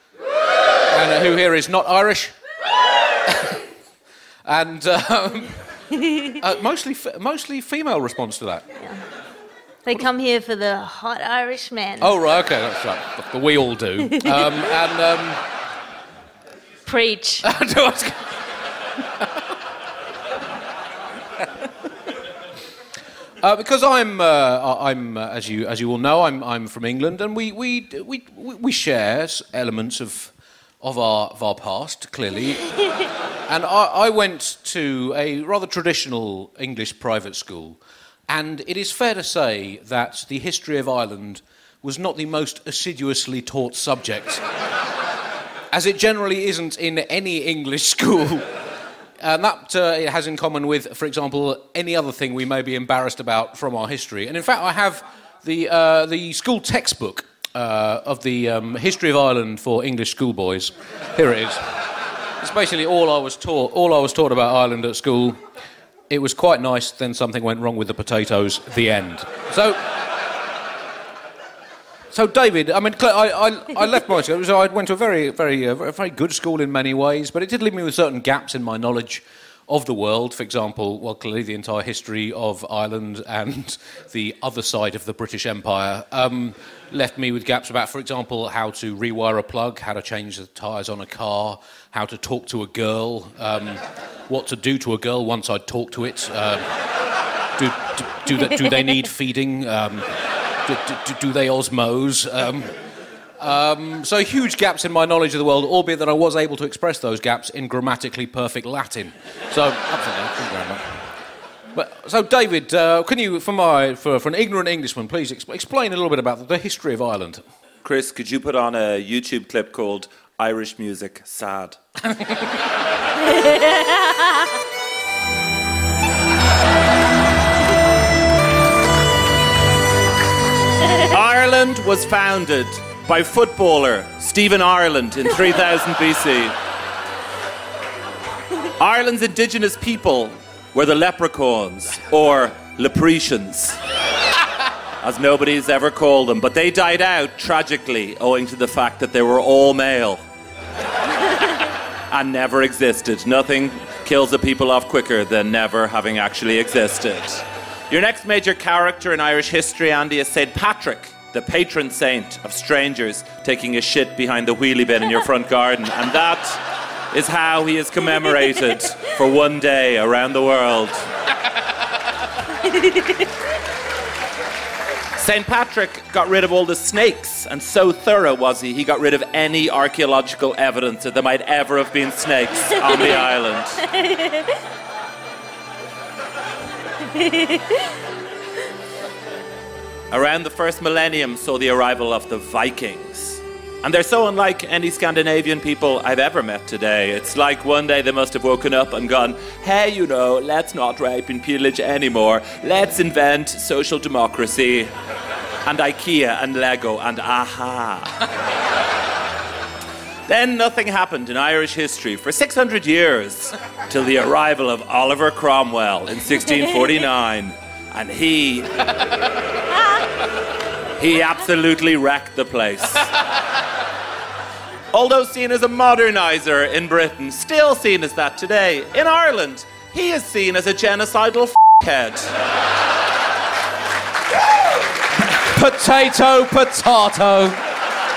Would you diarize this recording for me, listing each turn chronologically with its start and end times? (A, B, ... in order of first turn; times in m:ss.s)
0:00.9-0:02.3 A
0:03.3-0:03.6 A
0:04.4-0:05.6 A
0:06.2-0:08.7 A
0:09.8-0:12.1 B
0:12.0-0:15.4 A
0:16.9-0:17.4 B
0:17.4-0:18.3 A
0:23.4-0:32.7 A
0:33.5-0:44.4 A
0:45.7-0:48.4 A
0:49.2-1:01.7 A
1:02.4-1:05.4 A
1:06.1-1:09.8 A
1:12.1-1:36.6 A
1:37.6-1:40.1 A
1:40.6-1:42.7 A
1:43.4-1:51.1 A
1:51.7-1:57.4 A
1:57.8-2:01.8 C
2:10.9-2:16.6 C
2:18.8-2:23.8 C
2:25.0-2:30.2 C
2:32.1-2:46.6 C
2:47.1-2:51.1 C
2:55.2-3:04.0 C
3:07.5-3:07.8 B
3:10.1-3:24.9 C
3:25.7-3:28.2 C
3:30.3-3:38.9 C
3:41.0-3:43.1 C
3:44.9-3:52.3 C
3:55.3-3:57.6 A